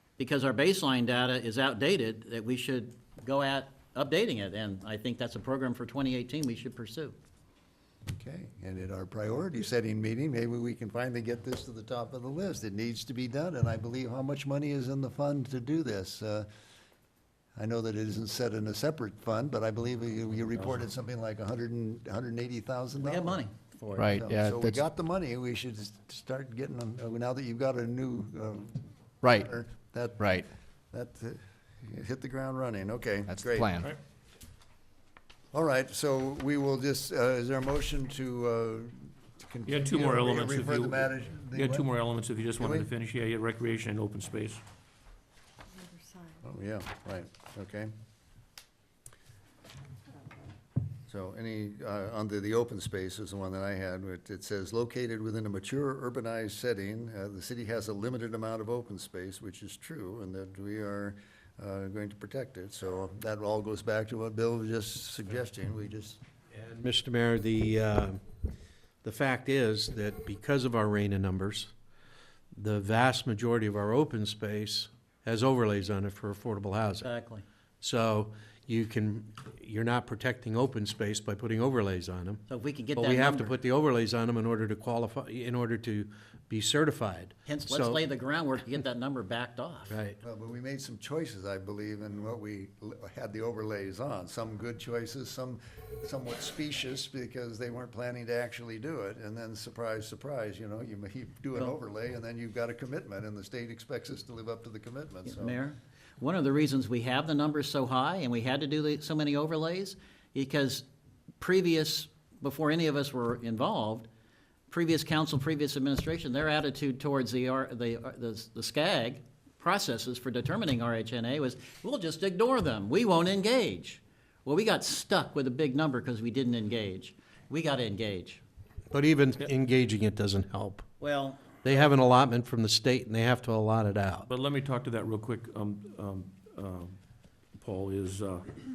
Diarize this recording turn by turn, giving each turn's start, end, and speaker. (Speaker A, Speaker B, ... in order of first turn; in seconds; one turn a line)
Speaker A: 0.2-7.2
Speaker B: 8.1-16.5
Speaker B: 17.6-23.4
Speaker A: 23.0-24.1
Speaker C: 24.0-24.8
Speaker B: 24.1-28.8
Speaker C: 29.2-29.5
Speaker B: 29.4-30.3
Speaker C: 30.2-30.4
Speaker B: 30.9-33.7
Speaker C: 33.3-33.9
Speaker B: 35.5-41.9
Speaker D: 39.7-44.6
Speaker B: 42.6-42.9
Speaker B: 46.4-47.9
Speaker B: 51.1-66.2
Speaker E: 66.5-68.2
Speaker E: 69.0-71.7
Speaker E: 72.5-77.1
Speaker A: 77.0-77.4
Speaker E: 77.8-82.4
Speaker A: 82.5-83.5
Speaker E: 82.9-88.0
Speaker A: 87.5-89.9
Speaker E: 89.9-90.2
Speaker B: 90.2-105.6
Speaker A: 105.2-110.8
Speaker A: 111.4-114.1
Speaker A: 114.7-128.4
Speaker E: 128.9-130.9
Speaker A: 131.0-131.8
Speaker E: 131.6-134.3
Speaker D: 134.3-137.0
Speaker D: 137.5-138.6